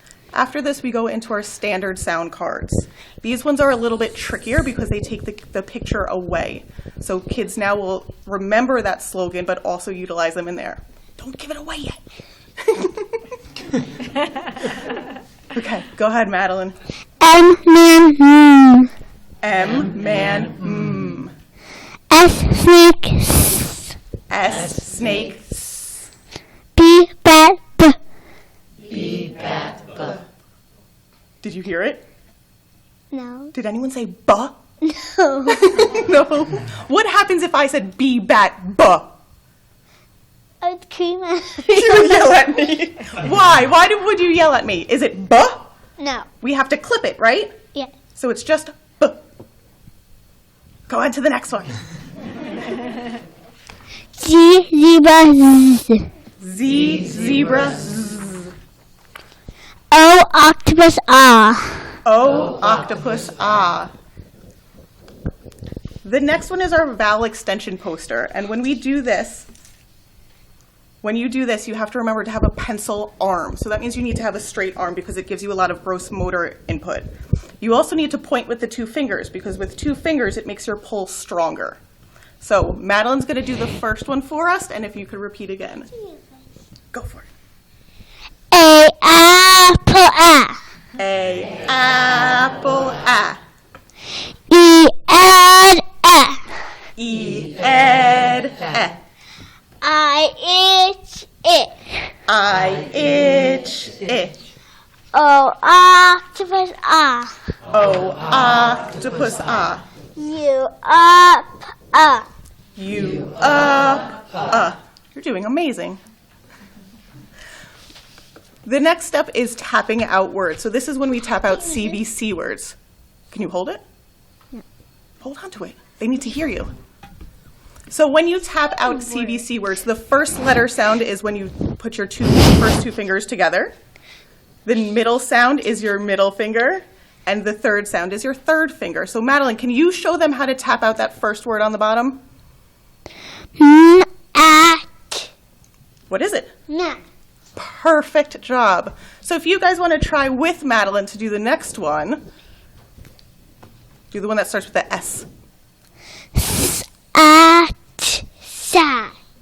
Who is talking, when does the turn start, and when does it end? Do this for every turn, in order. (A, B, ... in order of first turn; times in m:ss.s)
0:00.3-0:12.0 A
0:12.6-0:13.2 A
0:15.5-0:16.8 A
0:17.2-0:18.9 B
0:19.4-0:21.3 A
0:22.1-0:23.8 B
0:24.3-0:26.0 A
0:26.8-0:28.0 B
0:31.4-0:32.0 A
0:33.1-0:33.5 B
0:33.5-0:34.6 A
0:34.8-0:35.6 B
0:35.4-0:39.1 A
0:40.6-0:42.3 B
0:41.6-0:45.7 A
0:46.0-0:46.2 B
0:46.4-0:47.5 A
0:48.1-0:49.3 A
0:50.9-0:51.7 A
0:54.2-0:56.1 B
0:56.4-0:58.5 A
0:59.9-1:01.9 B
1:02.0-1:03.9 A
1:06.0-1:09.5 A
1:11.0-1:17.1 A
1:17.6-1:21.8 A
1:22.4-1:25.9 A
1:25.9-1:26.4 B
1:26.9-1:27.3 A
1:28.5-1:30.6 B
1:31.0-1:33.4 A
1:34.5-1:36.4 B
1:37.0-1:39.0 A
1:39.8-1:41.7 B
1:42.3-1:44.4 A
1:45.1-1:47.3 B
1:47.7-1:49.8 A
1:50.2-1:52.3 B
1:52.8-1:56.0 A
1:58.6-2:02.8 A
2:01.4-2:02.0 B
2:03.3-2:03.8 A
2:05.2-2:06.7 A
2:07.9-2:13.7 A
2:14.6-2:22.2 A
2:23.6-2:25.3 B
2:26.1-2:26.5 A
2:26.7-2:27.0 B
2:27.6-2:32.2 A
2:34.1-2:35.3 A
2:36.4-2:39.1 B